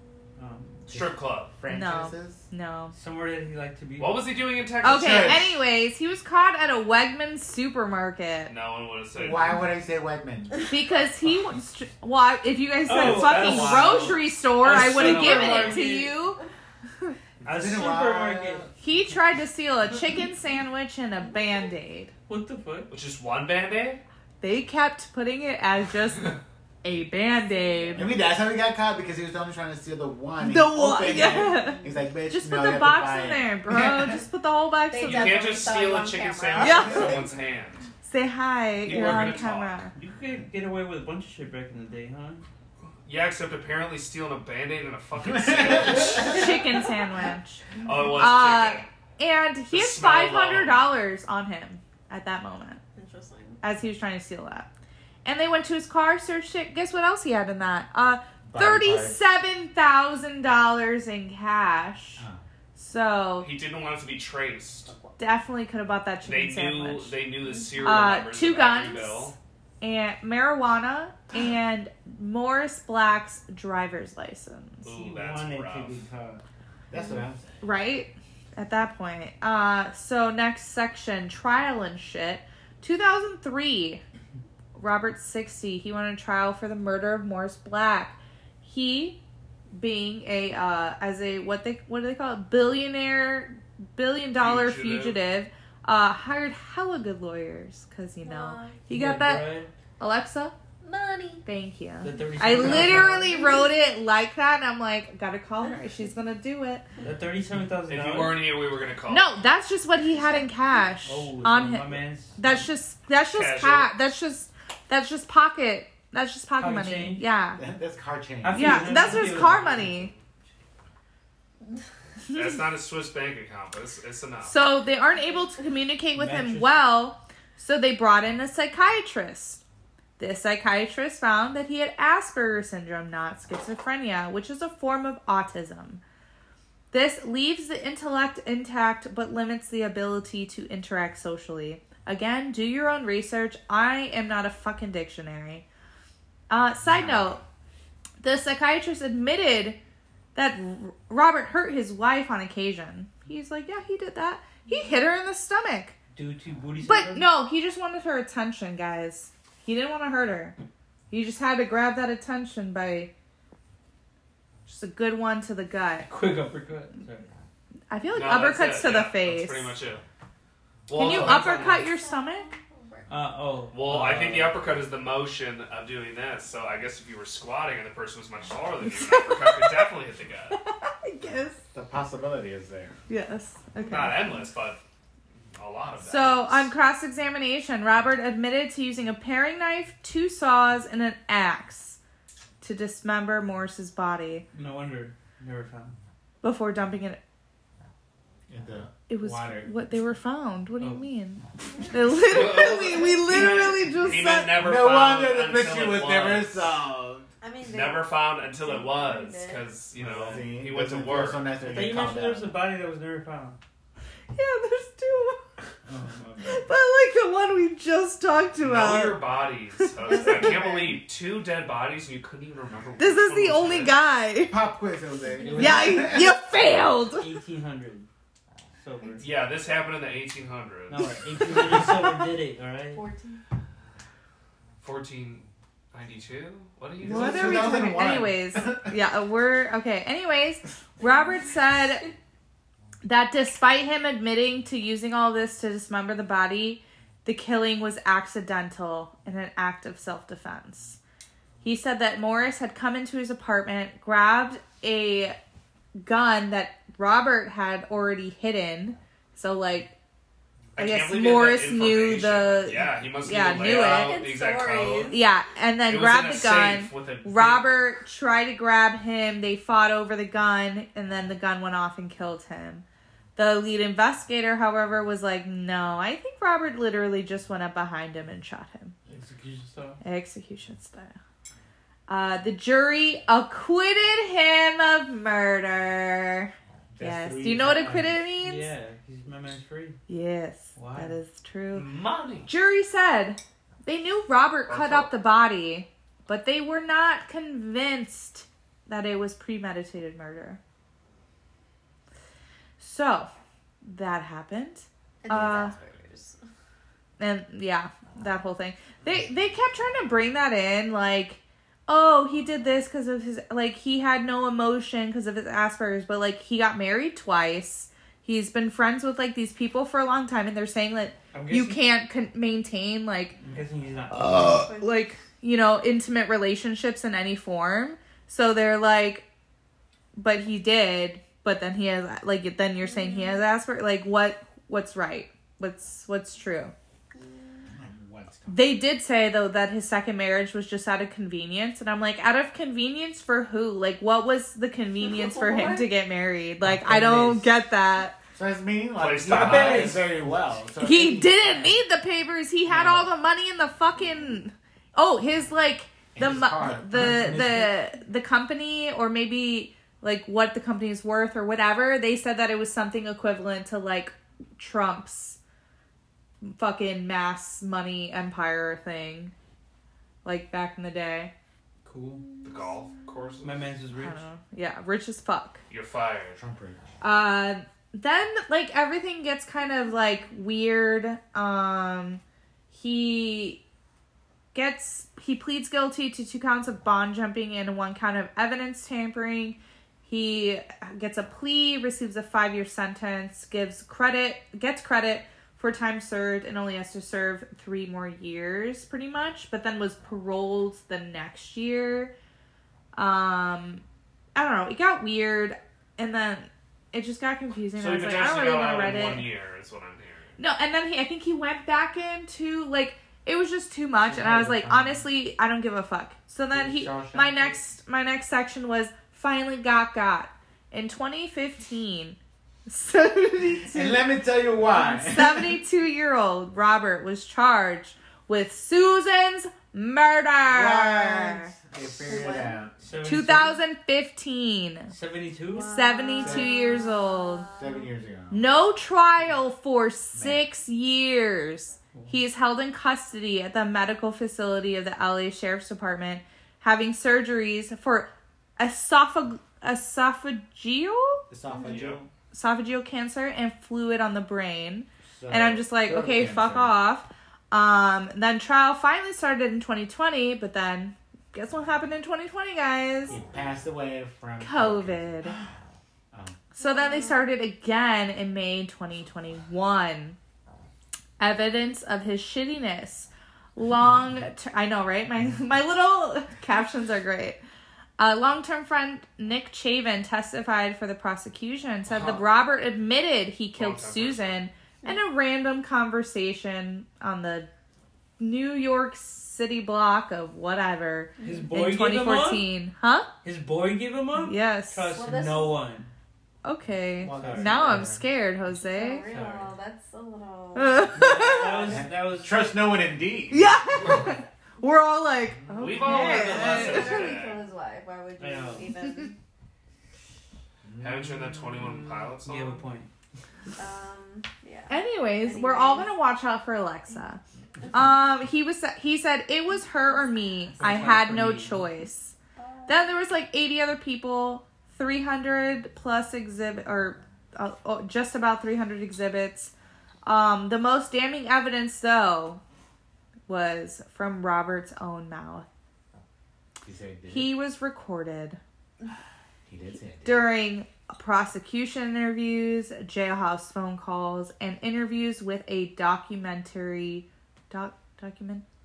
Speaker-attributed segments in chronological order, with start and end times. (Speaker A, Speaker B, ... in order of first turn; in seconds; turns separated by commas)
Speaker A: 0.4-0.9, Speaker B: 0.9-2.5, Speaker C: 0.9-1.5, Speaker D: 1.7-2.9, Speaker A: 2.9-4.3, Speaker C: 4.0-5.5, Speaker B: 4.8-5.5, Speaker D: 4.8-8.5, Speaker C: 8.5-9.7, Speaker B: 9.2-10.6, Speaker D: 10.7-16.4, Speaker A: 12.9-16.2, Speaker C: 12.9-15.8, Speaker A: 17.4-18.7, Speaker B: 17.4-18.7, Speaker D: 18.8-22.1, Speaker A: 22.3-22.9, Speaker C: 22.9-24.0, Speaker D: 24.4-28.1, Speaker B: 27.9-34.2, Speaker D: 30.4-35.5, Speaker E: 34.9-37.1, Speaker C: 35.0-37.9, Speaker D: 36.6-37.2, Speaker B: 36.6-37.3, Speaker D: 38.0-40.0, Speaker C: 38.8-39.8, Speaker A: 39.0-39.3, Speaker A: 39.9-42.5, Speaker C: 43.0-46.6, Speaker B: 45.2-46.3, Speaker D: 46.0-52.8, Speaker C: 47.8-48.9, Speaker C: 49.7-50.8, Speaker E: 53.0-53.6, Speaker D: 53.6-54.7, Speaker D: 55.2-63.5, Speaker B: 58.5-59.2, Speaker C: 63.4-64.9, Speaker E: 64.9-65.1, Speaker D: 65.2-67.2, Speaker C: 66.2-69.4, Speaker D: 67.8-74.9, Speaker C: 74.8-76.0, Speaker A: 74.9-76.4, Speaker B: 76.9-77.6, Speaker D: 77.6-84.0, Speaker D: 84.8-89.2, Speaker D: 89.7-100.5, Speaker C: 94.4-95.2, Speaker E: 98.2-98.8, Speaker A: 98.9-99.7, Speaker E: 100.8-101.5, Speaker D: 101.5-106.8, Speaker A: 102.0-103.6, Speaker E: 103.3-103.7, Speaker A: 107.0-108.5, Speaker C: 107.9-109.3, Speaker D: 109.1-117.6, Speaker E: 110.2-110.4, Speaker A: 111.0-112.7, Speaker C: 113.3-113.9, Speaker A: 116.6-117.3, Speaker B: 117.6-119.2, Speaker A: 118.4-120.0, Speaker D: 118.5-120.1, Speaker C: 119.1-120.2, Speaker C: 122.3-124.6, Speaker D: 124.4-129.6, Speaker A: 126.2-126.8, Speaker D: 130.2-136.0, Speaker D: 136.9-145.7, Speaker D: 146.5-147.4, Speaker B: 146.9-147.3, Speaker D: 148.2-149.8, Speaker D: 150.3-156.0, Speaker A: 156.1-157.3, Speaker D: 156.8-160.6, Speaker D: 161.1-163.1, Speaker D: 164.7-166.1, Speaker A: 166.1-167.3, Speaker D: 167.9-169.8, Speaker C: 168.1-170.0, Speaker C: 170.9-171.9, Speaker D: 170.9-172.5, Speaker A: 171.0-171.8, Speaker E: 171.6-173.2, Speaker A: 173.1-174.7, Speaker C: 173.7-180.6, Speaker D: 178.8-179.9, Speaker D: 180.5-181.6, Speaker B: 181.7-183.0, Speaker D: 183.1-184.4, Speaker C: 183.8-184.8, Speaker C: 185.5-186.7, Speaker D: 186.0-192.0, Speaker D: 192.6-194.5, Speaker A: 194.5-196.0, Speaker D: 196.4-197.2, Speaker B: 198.5-199.8, Speaker D: 199.1-204.6, Speaker A: 200.8-201.1, Speaker C: 202.2-206.8, Speaker B: 204.6-207.3, Speaker E: 207.4-209.7, Speaker C: 207.7-211.5, Speaker B: 210.0-212.6, Speaker A: 211.6-213.6, Speaker D: 214.3-215.4, Speaker B: 215.9-216.7, Speaker D: 216.4-220.5, Speaker C: 218.6-224.0, Speaker E: 220.1-220.9, Speaker D: 223.0-224.6, Speaker B: 224.5-226.4, Speaker A: 225.4-226.2, Speaker D: 225.5-227.3, Speaker A: 227.1-228.1, Speaker A: 228.8-229.3, Speaker E: 229.0-229.3, Speaker C: 229.2-231.1, Speaker A: 230.9-233.1, Speaker E: 232.9-233.4, Speaker C: 234.8-237.8, Speaker B: 237.0-238.9, Speaker D: 237.1-242.1, Speaker D: 243.0-251.0, Speaker D: 251.6-255.4, Speaker D: 256.0-259.9, Speaker C: 260.8-265.2, Speaker D: 260.8-264.2, Speaker E: 263.6-265.2, Speaker D: 265.1-272.9, Speaker C: 265.9-267.8, Speaker D: 273.4-278.9, Speaker A: 279.1-280.0, Speaker D: 280.0-281.1, Speaker D: 282.1-288.7, Speaker B: 286.9-288.2, Speaker A: 288.3-290.0, Speaker D: 290.1-291.9, Speaker A: 290.8-291.2, Speaker C: 291.7-292.5, Speaker D: 292.4-300.6, Speaker C: 294.7-295.1, Speaker D: 302.8-303.3, Speaker D: 303.8-305.7, Speaker E: 305.2-306.4, Speaker D: 307.2-323.4, Speaker A: 321.3-321.8, Speaker A: 323.4-324.7, Speaker D: 324.1-329.3, Speaker E: 324.5-325.0, Speaker D: 330.1-336.7, Speaker E: 332.8-333.4, Speaker E: 337.1-337.7, Speaker B: 337.7-338.7, Speaker D: 338.5-348.2, Speaker E: 345.0-345.9, Speaker A: 346.7-347.5, Speaker B: 348.4-351.8, Speaker C: 349.0-350.1, Speaker A: 349.3-350.1, Speaker D: 350.8-365.4, Speaker B: 352.7-353.1, Speaker B: 356.1-357.4, Speaker A: 357.0-357.7, Speaker D: 366.4-369.3, Speaker D: 370.2-371.3, Speaker A: 371.9-372.4, Speaker C: 372.4-373.7, Speaker A: 373.4-374.2, Speaker D: 373.9-375.6, Speaker C: 375.7-376.4, Speaker B: 376.4-376.8, Speaker D: 377.0-383.6, Speaker D: 384.5-402.1, Speaker D: 402.9-403.8, Speaker D: 404.4-409.3, Speaker C: 407.8-410.4, Speaker D: 410.4-424.1, Speaker B: 414.1-415.1, Speaker B: 416.5-417.6, Speaker B: 423.7-425.6, Speaker D: 424.7-431.5, Speaker B: 430.4-432.7, Speaker E: 432.0-432.7, Speaker A: 432.8-433.6, Speaker D: 433.0-434.9, Speaker A: 434.9-435.8, Speaker E: 435.5-437.9, Speaker D: 435.6-437.5, Speaker B: 436.2-436.7, Speaker B: 437.6-438.5, Speaker D: 438.3-451.2, Speaker B: 440.1-440.5, Speaker A: 441.9-442.2, Speaker B: 451.3-452.1, Speaker E: 451.5-451.8, Speaker C: 451.7-452.0, Speaker D: 452.3-463.2, Speaker B: 455.1-456.8, Speaker B: 463.1-465.5, Speaker D: 464.4-465.4, Speaker B: 466.1-466.4, Speaker D: 466.6-470.2, Speaker E: 466.6-467.2, Speaker D: 471.2-477.4, Speaker D: 478.0-487.5, Speaker C: 481.9-482.2, Speaker C: 483.6-484.4, Speaker D: 488.2-493.1, Speaker E: 491.2-491.5, Speaker A: 491.2-492.5, Speaker A: 493.2-495.9, Speaker D: 494.1-495.0, Speaker E: 494.9-495.7, Speaker D: 496.4-499.1, Speaker B: 497.0-498.1, Speaker A: 497.1-497.8, Speaker E: 498.6-501.0, Speaker A: 499.1-499.6, Speaker D: 500.6-501.8, Speaker A: 500.9-502.5, Speaker B: 501.5-503.5, Speaker D: 503.3-507.1, Speaker C: 505.6-507.4, Speaker A: 505.9-507.1, Speaker E: 506.2-509.2, Speaker A: 508.2-508.8, Speaker B: 510.6-511.4, Speaker C: 510.8-512.6, Speaker A: 512.2-512.9, Speaker E: 513.6-515.9, Speaker D: 514.7-517.2, Speaker D: 517.7-522.1, Speaker A: 520.6-521.7, Speaker E: 522.4-522.9, Speaker D: 522.7-529.5, Speaker D: 530.0-532.4, Speaker D: 533.3-535.5, Speaker B: 536.6-537.3, Speaker D: 537.1-538.4, Speaker B: 539.5-540.3, Speaker D: 540.0-548.4